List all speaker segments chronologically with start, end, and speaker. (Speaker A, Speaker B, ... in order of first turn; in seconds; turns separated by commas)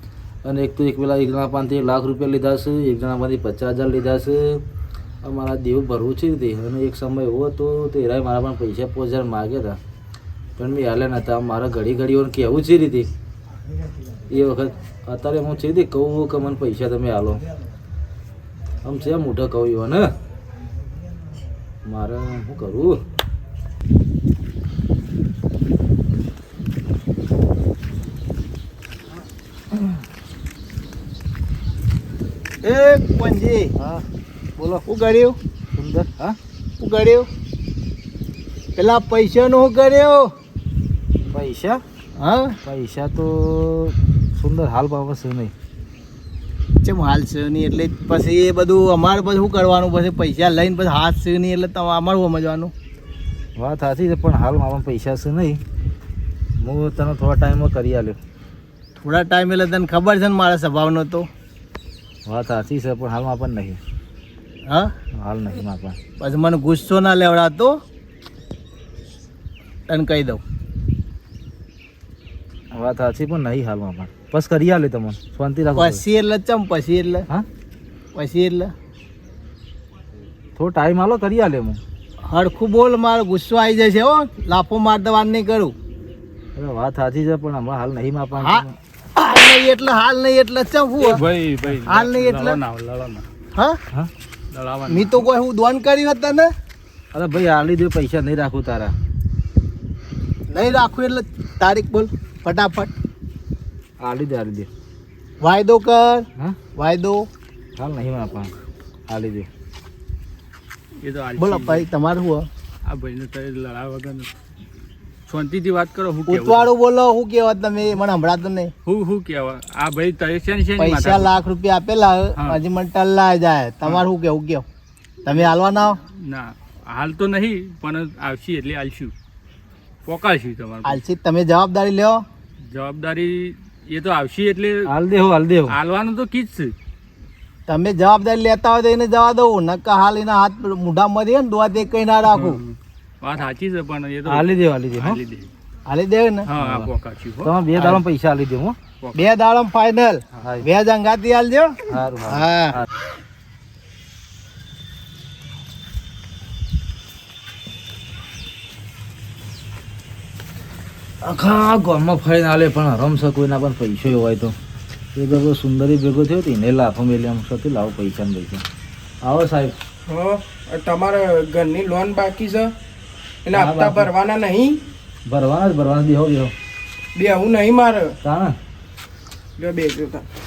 Speaker A: 0.4-4.6, Speaker A: 5.2-9.8, Speaker A: 10.6-13.1, Speaker A: 14.3-17.4, Speaker A: 18.8-20.1, Speaker A: 21.9-23.0, Speaker B: 32.6-33.7, Speaker A: 33.8-34.0, Speaker A: 34.6-34.9, Speaker B: 34.9-35.4, Speaker A: 35.7-36.4, Speaker B: 36.8-37.3, Speaker B: 38.8-40.3, Speaker A: 41.3-41.8, Speaker B: 42.2-42.6, Speaker A: 42.6-45.5, Speaker B: 46.8-52.7, Speaker A: 53.6-55.6, Speaker A: 56.6-58.2, Speaker B: 59.0-61.3, Speaker A: 62.3-63.8, Speaker A: 65.2-66.0, Speaker B: 66.2-67.8, Speaker B: 69.9-70.4, Speaker A: 72.7-76.0, Speaker B: 75.8-77.3, Speaker B: 78.2-78.7, Speaker A: 80.6-81.8, Speaker B: 82.2-85.7, Speaker A: 86.6-88.8, Speaker B: 88.4-88.6, Speaker B: 89.2-91.2, Speaker C: 91.0-93.2, Speaker B: 91.9-92.6, Speaker C: 94.5-95.3, Speaker B: 94.9-96.5, Speaker A: 97.1-99.0, Speaker B: 100.5-102.9, Speaker A: 104.0-104.7, Speaker B: 105.4-107.3, Speaker A: 107.8-108.5, Speaker A: 109.1-109.5, Speaker C: 111.0-111.9, Speaker B: 111.4-112.5, Speaker C: 112.9-114.3, Speaker C: 115.3-116.7, Speaker B: 116.3-118.7, Speaker C: 118.9-121.3, Speaker B: 120.8-124.7, Speaker B: 125.2-126.0, Speaker C: 126.1-129.1, Speaker C: 130.1-131.0, Speaker B: 130.8-132.2, Speaker C: 132.7-134.9, Speaker A: 134.9-135.8, Speaker C: 135.7-136.8, Speaker B: 137.7-142.6, Speaker C: 142.3-145.5, Speaker A: 144.3-145.2, Speaker B: 145.9-146.5, Speaker C: 146.5-147.5, Speaker A: 146.6-146.9, Speaker A: 147.4-148.8, Speaker B: 147.8-148.0, Speaker B: 149.1-152.8, Speaker A: 151.9-152.9, Speaker A: 161.2-164.6, Speaker A: 165.2-168.7, Speaker A: 169.2-169.8, Speaker D: 170.1-172.7, Speaker D: 173.4-174.8, Speaker A: 173.5-174.1, Speaker A: 175.3-176.5, Speaker D: 177.2-178.2, Speaker A: 178.2-178.6, Speaker D: 179.6-180.3